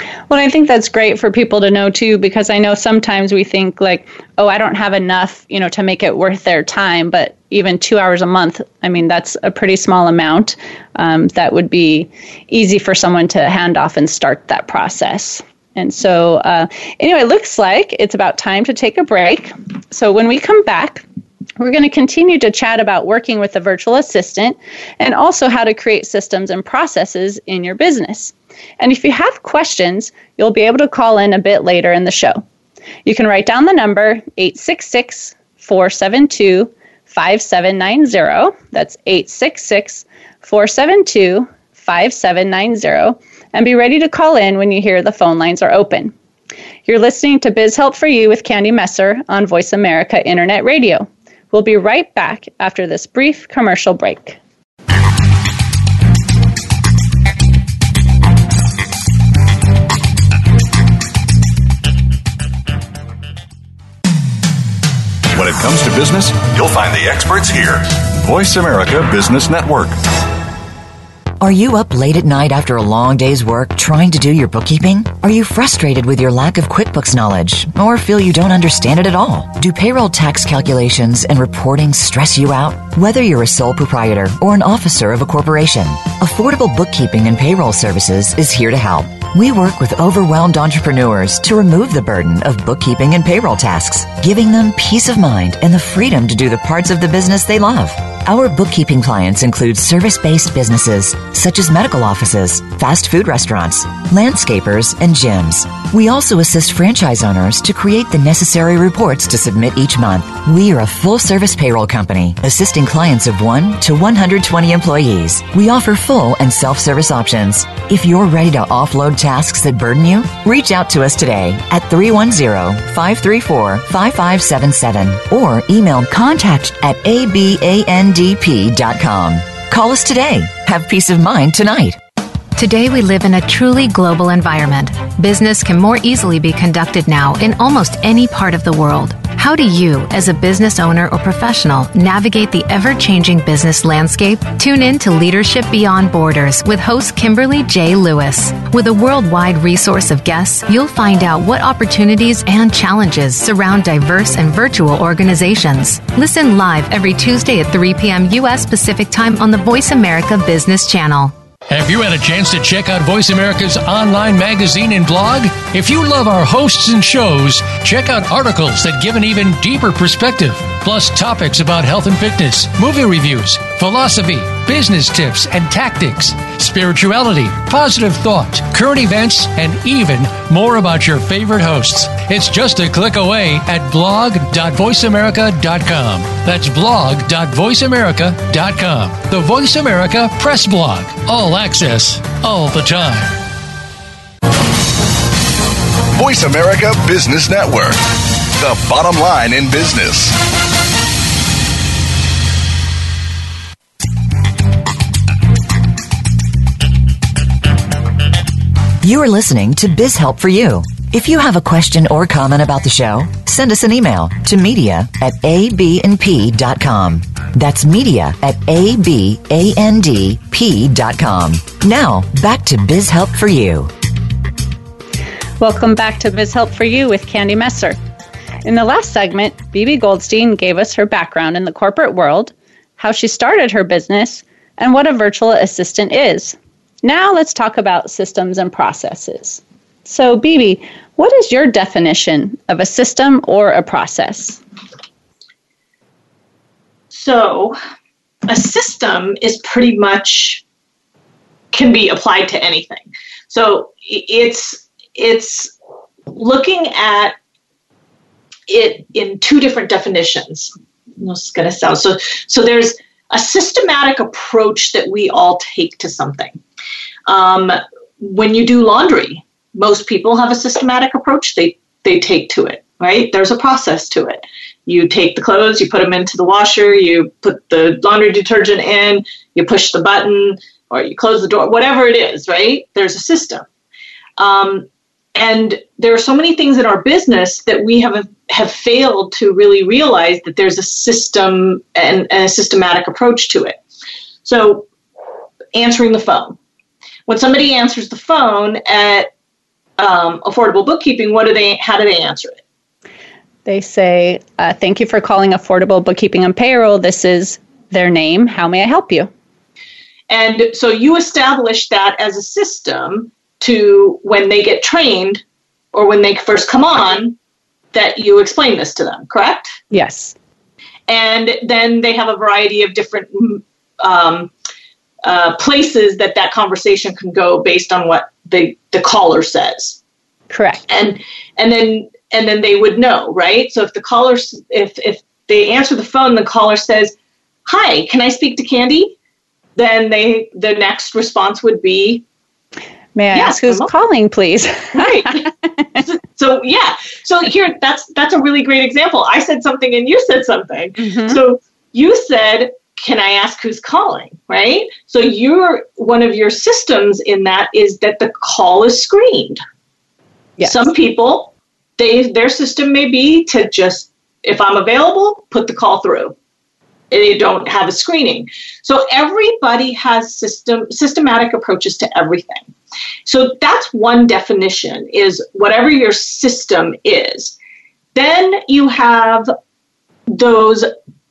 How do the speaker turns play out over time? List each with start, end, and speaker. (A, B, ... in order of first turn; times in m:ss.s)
0:00.3-0:21.0 A
0:21.6-0:32.4 A
0:33.1-0:46.1 A
0:46.9-0:54.4 A
1:05.3-1:10.0 B
1:11.4-2:12.0 C
2:12.6-2:41.4 D
2:41.7-3:13.4 E
3:16.2-3:20.4 B
3:29.0-3:43.9 C
3:45.6-3:48.0 A
3:48.6-4:04.6 A
4:07.1-4:07.8 F
4:08.5-4:10.6 F
4:11.7-4:15.7 F
4:16.3-4:17.4 F
4:18.7-4:26.6 F
4:27.3-4:43.6 F
4:44.4-4:53.8 F
4:54.4-4:54.9 F
4:55.7-4:56.6 F
4:57.3-4:59.3 F
5:00.0-5:02.6 F
5:03.7-5:09.3 A
5:10.3-5:15.4 F
5:15.9-5:17.4 F
5:17.9-5:19.8 F
5:19.9-5:20.4 A
5:21.1-5:24.5 F
5:25.2-5:30.0 F
5:30.5-5:30.8 A
5:30.9-5:37.1 F
5:37.7-5:39.1 F
5:39.8-5:42.2 F
5:43.2-5:45.3 A
5:43.3-5:43.9 F
5:45.0-5:45.5 F
5:46.0-5:59.6 F
5:51.0-5:51.4 A
6:00.6-6:06.4 F
6:07.1-6:12.7 F
6:13.3-6:17.6 F
6:18.2-6:19.5 F
6:20.3-6:20.9 F